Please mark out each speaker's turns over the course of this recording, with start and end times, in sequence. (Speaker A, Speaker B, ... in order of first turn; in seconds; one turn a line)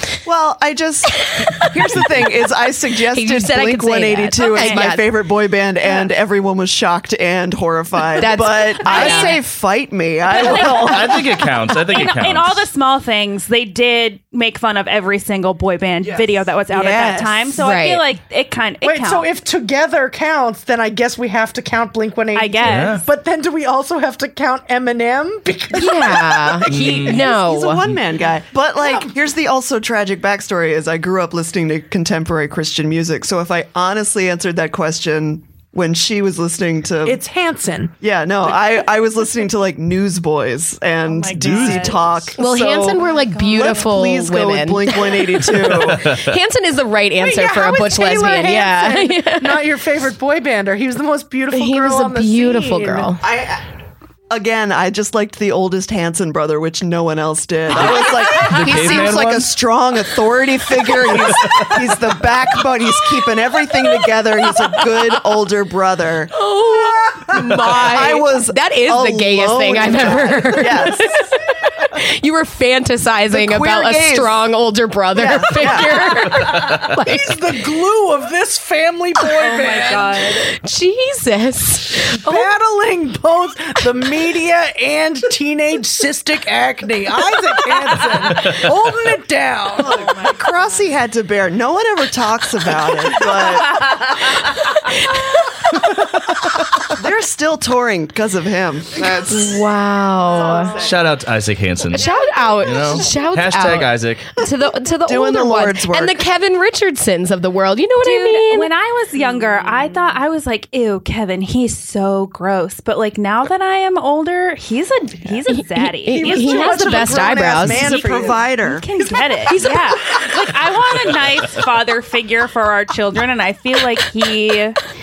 Speaker A: 0.2-11.1
Speaker B: 3.0-5.1
Speaker C: 4.4-4.8
Speaker B: 8.2-9.4
Speaker C: 8.9-9.3
Speaker C: 10.3-11.1
Speaker D: 10.5-12.6
Speaker C: 11.9-19.3
Speaker E: 16.1-17.6
Speaker B: 17.6-18.0
Speaker E: 18.8-27.2
Speaker C: 22.3-23.0
Speaker D: 22.7-23.0
Speaker B: 25.7-27.8
Speaker D: 26.7-27.2
Speaker A: 26.9-37.2
Speaker E: 28.8-29.1
Speaker E: 37.0-37.9
Speaker A: 38.0-46.1
Speaker C: 41.0-42.2
Speaker D: 41.4-42.0
Speaker B: 42.4-49.7
Speaker D: 45.9-46.3
Speaker E: 47.2-53.1
Speaker B: 51.5-53.2
Speaker A: 53.2-53.6
Speaker A: 54.3-66.3
Speaker D: 57.7-59.5
Speaker B: 66.3-71.3
Speaker E: 66.7-67.3
Speaker A: 67.7-71.2
Speaker E: 70.2-70.7
Speaker B: 71.8-77.5
Speaker A: 73.3-74.4
Speaker A: 75.2-76.3
Speaker E: 75.3-75.8
Speaker E: 76.3-80.4
Speaker C: 79.4-80.4
Speaker B: 80.5-82.5
Speaker E: 82.1-90.2
Speaker A: 89.8-94.0
Speaker C: 89.9-90.8
Speaker B: 95.1-95.5
Speaker A: 96.9-99.7
Speaker B: 99.2-100.8
Speaker A: 100.3-101.0
Speaker E: 100.6-100.9
Speaker D: 100.8-102.1
Speaker B: 101.9-108.7
Speaker D: 102.6-104.3
Speaker A: 105.0-106.2
Speaker C: 108.0-117.4
Speaker B: 115.5-118.0
Speaker E: 116.1-120.3
Speaker A: 117.6-118.9
Speaker C: 118.6-124.8
Speaker B: 119.5-120.0